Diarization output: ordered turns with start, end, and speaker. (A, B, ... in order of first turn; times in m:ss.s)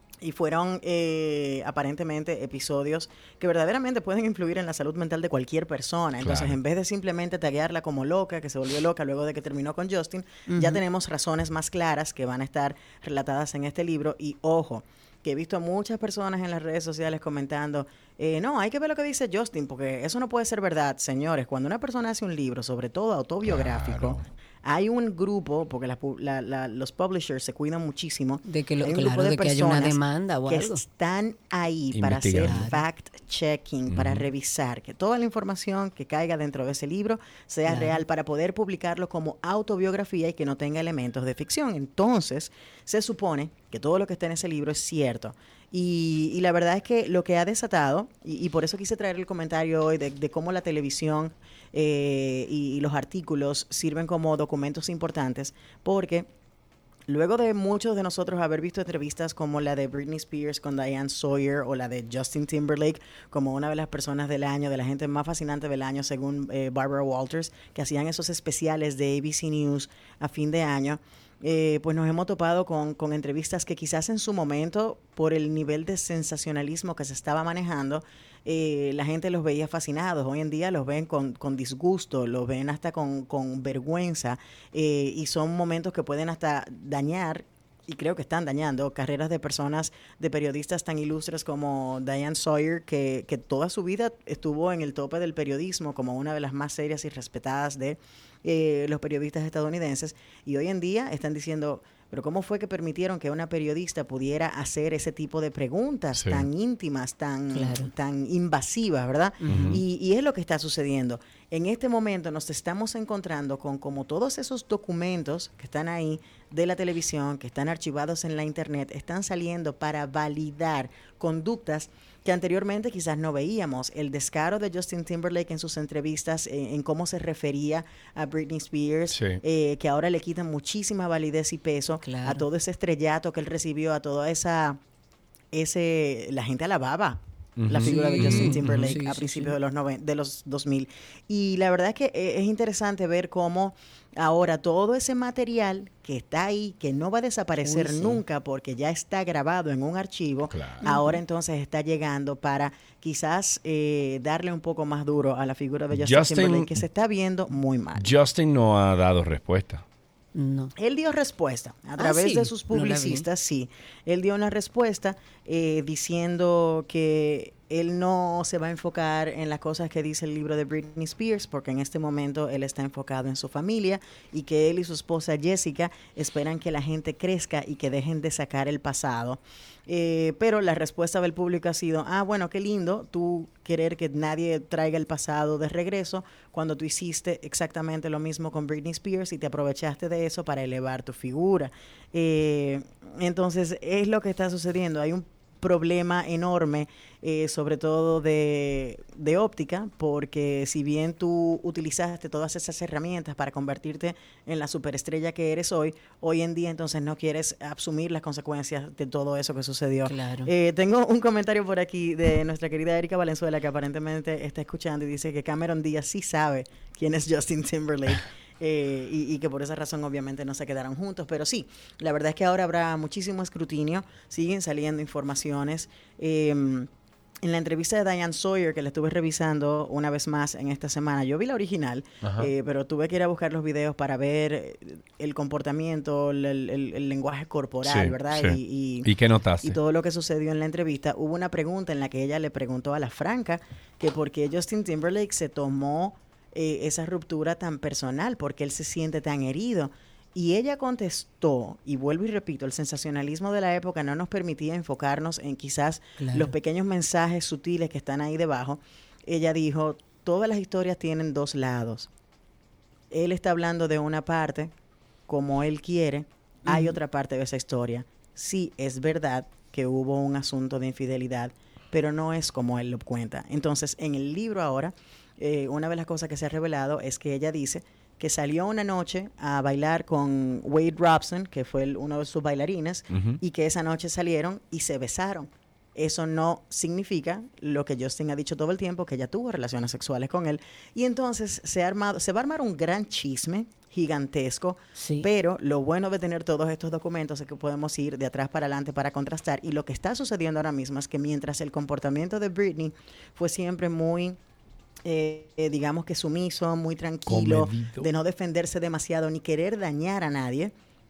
0:00.2-0:56.3 A
0:06.2-0:06.6 B
0:10.5-0:10.8 C
0:23.4-0:24.2 B
0:28.4-0:30.8 C
0:31.9-0:32.6 B
0:32.4-0:32.8 C
0:33.9-0:34.2 B
0:37.7-0:38.0 C
0:57.1-2:14.8 A
1:46.2-1:46.5 B
1:47.5-1:47.9 C
1:49.4-1:49.8 C
1:49.5-1:49.8 B
2:09.1-2:09.4 B
2:12.0-2:12.4 C
2:15.5-2:38.1 A
2:17.6-2:18.7 B
2:17.8-2:19.6 C
2:27.6-2:28.2 C
2:30.5-2:30.8 B
2:30.8-2:31.2 C
2:35.9-2:36.8 B
2:38.0-2:39.8 B
2:40.4-2:40.7 C
2:40.8-3:46.9 A
2:42.0-2:43.3 C
3:30.1-3:30.5 C
3:47.4-3:59.1 A
3:52.2-3:52.5 B
3:57.8-3:59.8 B
3:59.6-4:22.1 A
4:16.2-4:16.5 C
4:23.1-4:24.7 A
4:25.3-5:04.4 A
4:26.7-4:27.0 C
4:43.1-4:43.4 B
4:55.0-4:55.3 C
5:05.0-5:10.7 A
5:07.3-5:08.1 B